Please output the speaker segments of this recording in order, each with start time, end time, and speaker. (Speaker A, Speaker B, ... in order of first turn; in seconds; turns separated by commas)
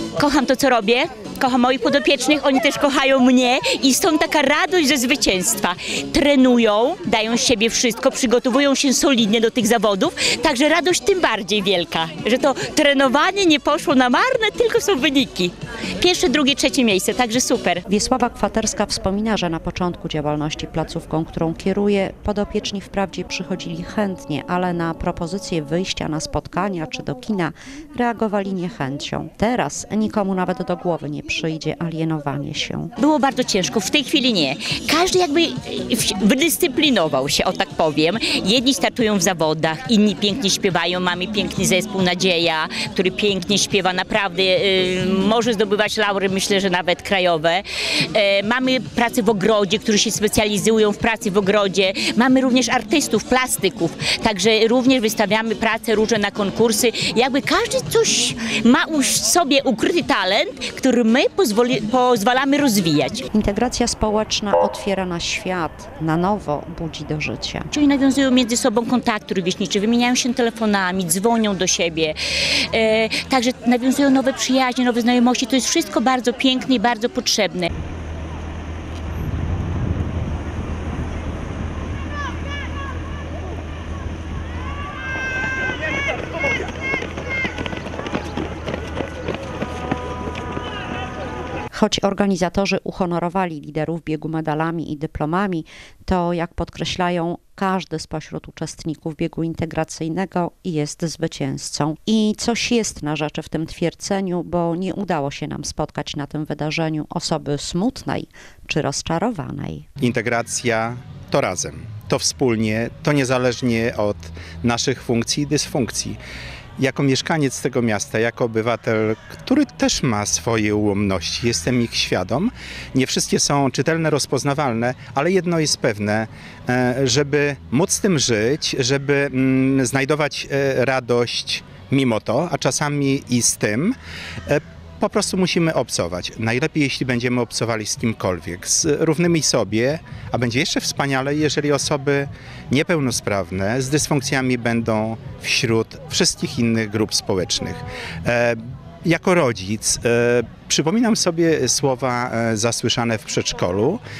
Speaker A: 0.2-17.8, Speaker B: 17.9-32.9, Speaker A: 33.0-63.3, Speaker B: 63.3-67.7, Speaker A: 67.7-72.2, Speaker A: 72.7-77.7, Speaker B: 91.7-109.9, Speaker C: 110.0-116.2, Speaker C: 116.8-134.0, Speaker C: 134.5-154.0